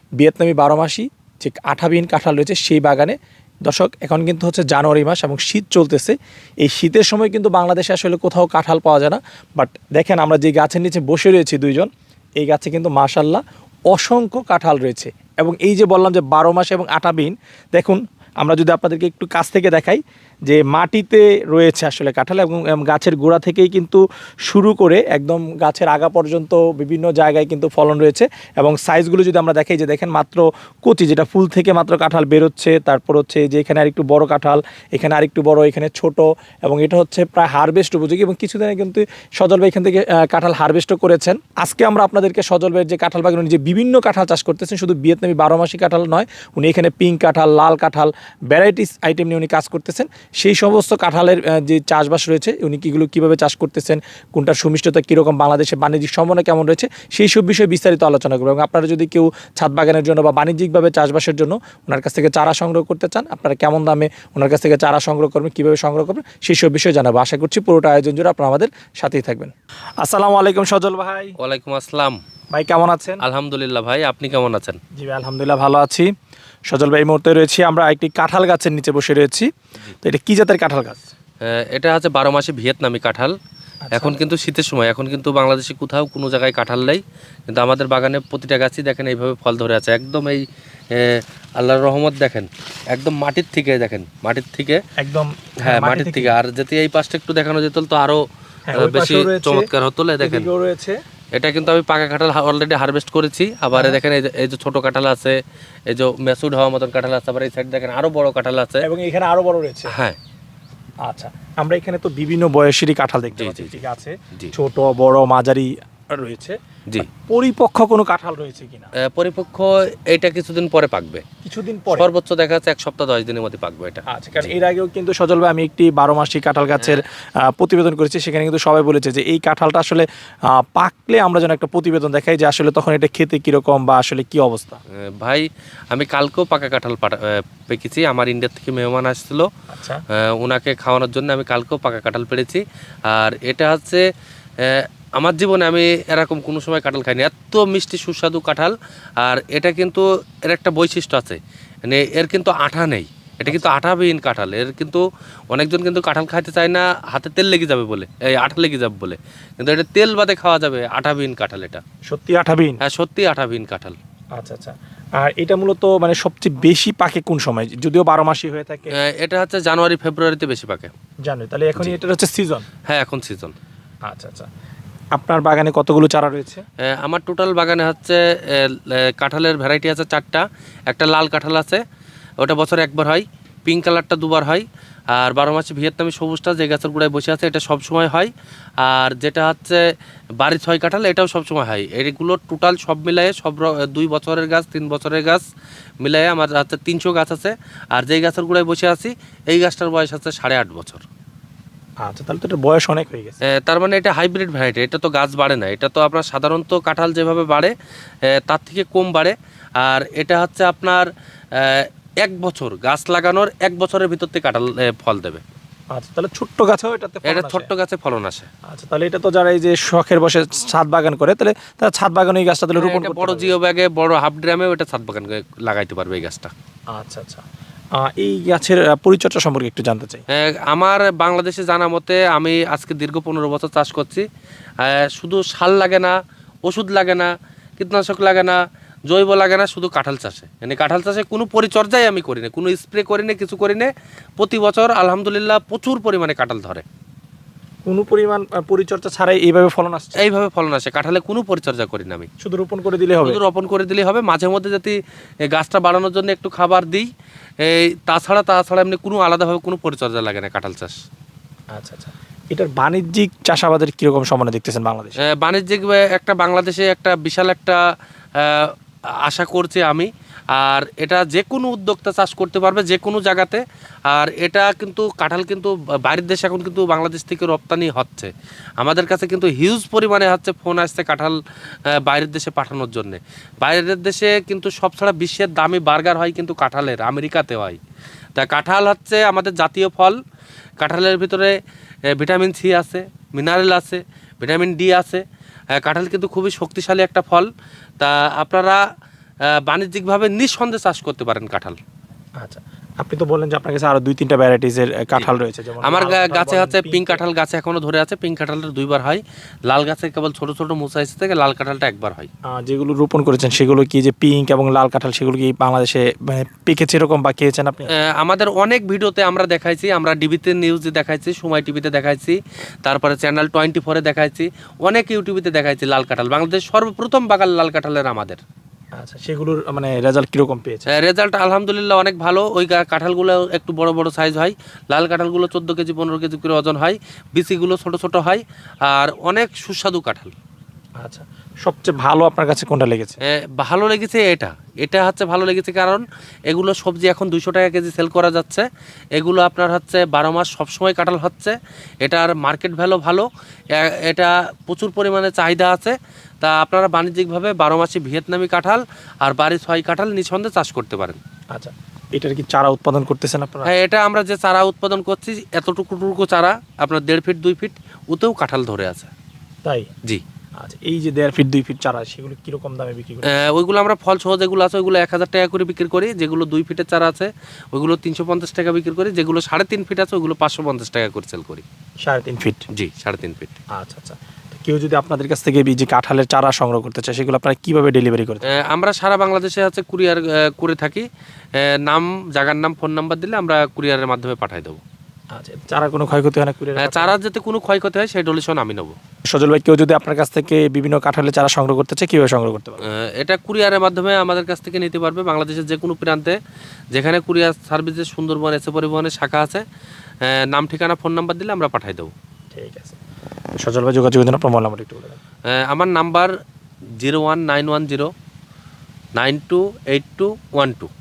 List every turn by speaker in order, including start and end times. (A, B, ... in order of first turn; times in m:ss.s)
0:00.2-1:11.4 A
1:11.4-1:12.2 B
1:12.5-1:13.2 A
1:13.2-1:14.8 B
1:15.0-1:16.1 A
1:16.7-1:19.5 A
1:20.0-1:21.1 A
1:21.4-1:23.4 B
1:23.9-1:24.2 A
1:23.9-1:34.8 B
1:35.0-1:36.4 A
1:35.6-1:40.5 B
1:38.7-1:39.7 A
1:40.2-1:41.0 A
1:41.4-1:45.4 B
1:43.7-1:44.0 A
1:45.9-1:48.8 B
1:48.8-1:49.9 A
1:49.9-1:50.2 B
1:51.0-1:56.6 A
1:53.4-1:53.8 B
1:57.1-1:58.9 A
1:59.0-2:01.2 B
2:01.4-2:02.1 A
2:01.9-2:04.5 B
2:04.1-2:14.8 A
2:15.2-2:19.5 B
2:19.7-2:20.0 A
2:20.1-2:24.0 B
2:24.6-2:41.8 B
2:33.5-2:33.8 A
2:42.1-2:42.8 A
2:42.8-2:44.0 B
2:44.4-2:49.0 A
2:48.9-2:50.9 B
2:51.2-2:52.7 A
2:52.9-2:53.6 B
2:54.0-2:54.5 A
2:55.2-2:56.6 A
2:56.9-3:01.8 B
3:02.4-3:09.8 B
3:10.4-3:15.4 B
3:16.0-3:21.0 B
3:22.0-3:23.4 A
3:23.4-3:35.4 B
3:35.9-3:37.7 A
3:37.2-3:38.5 B
3:38.7-3:43.6 A
3:42.8-3:46.5 B
3:46.9-3:47.4 A
3:48.0-3:50.2 A
3:50.3-3:54.3 B
3:54.8-4:06.8 B
4:07.9-4:10.2 A
4:10.2-4:12.3 B
4:12.4-4:13.4 A
4:13.2-4:15.0 B
4:15.5-4:21.0 B
4:21.7-4:25.2 A
4:25.2-4:27.8 B
4:28.4-4:28.7 B
4:29.2-4:47.8 B
4:48.4-4:50.2 B
4:50.8-4:51.5 B
4:52.1-4:58.8 B
4:59.5-5:01.8 B
5:02.4-5:07.2 A
5:05.2-5:12.3 B
5:12.5-5:17.9 A
5:18.0-5:28.4 B
5:29.0-5:30.9 A
5:30.9-5:40.3 B
5:41.0-5:43.2 A
5:43.2-6:01.2 B
6:01.5-6:03.7 A
6:03.6-6:09.1 B
6:09.6-6:09.9 A
6:10.6-6:13.4 A
6:13.2-6:21.6 B
6:22.0-6:22.6 A
6:22.7-6:23.6 B
6:23.7-6:28.6 A
6:28.5-6:34.8 B
6:35.3-6:37.1 A
6:36.8-6:39.0 B
6:39.3-6:42.8 A
6:42.8-6:46.4 B
6:46.9-6:49.6 B
6:50.2-6:52.1 B
6:52.5-6:53.0 A
6:53.6-6:55.2 A
6:55.5-6:56.3 B
6:57.0-6:58.1 B
6:59.2-7:00.9 B